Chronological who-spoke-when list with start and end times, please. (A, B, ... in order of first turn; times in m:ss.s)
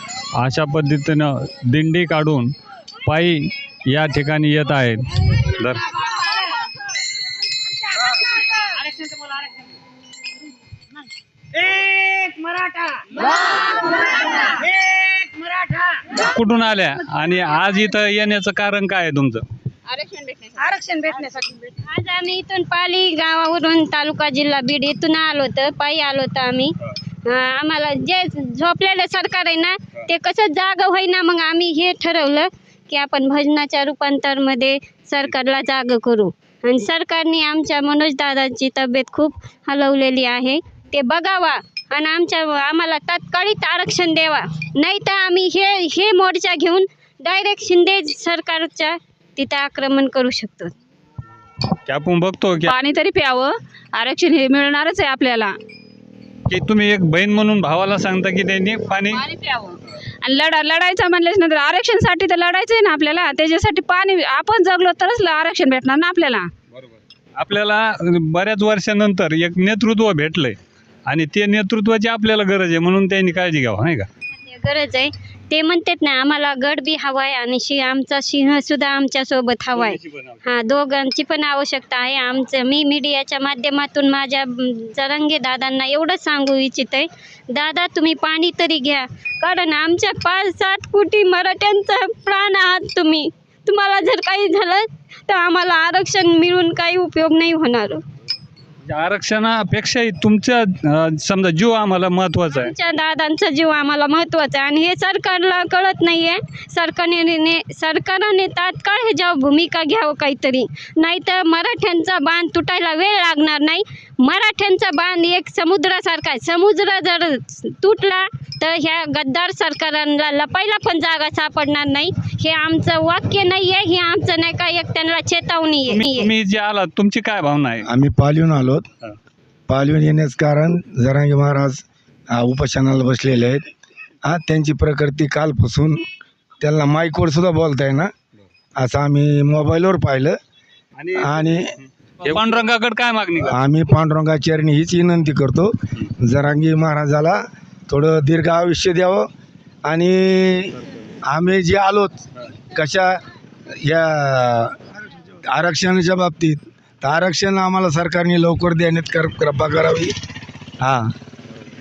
0:00.4-0:02.5 A
0:03.1-0:05.9 A
0:08.8-0:09.5 B
0:11.6-0:13.2 B
0:14.6-0:16.0 B
0:16.2-0:19.4 A
0:19.9-0:21.5 C
0:20.8-0:21.7 B
0:21.8-0:50.7 D
0:51.9-0:52.8 A
0:52.7-0:55.6 C
0:56.5-0:59.3 A
0:59.2-1:06.5 C
1:07.3-1:14.1 A
1:14.4-1:38.0 D
1:19.7-1:20.4 A
1:38.9-1:42.7 A
1:42.5-2:06.3 D
2:05.9-2:07.9 A
2:07.9-2:08.8 E
2:09.7-2:13.7 E
2:14.2-2:16.1 E
2:16.6-2:18.1 E
2:18.8-2:20.4 E
2:21.0-2:23.6 A
2:21.1-2:21.8 E
2:23.4-2:29.3 E
2:29.8-2:32.2 E
2:32.7-2:33.2 E
2:33.8-2:34.8 E
2:35.5-2:40.1 E
2:40.8-2:41.1 E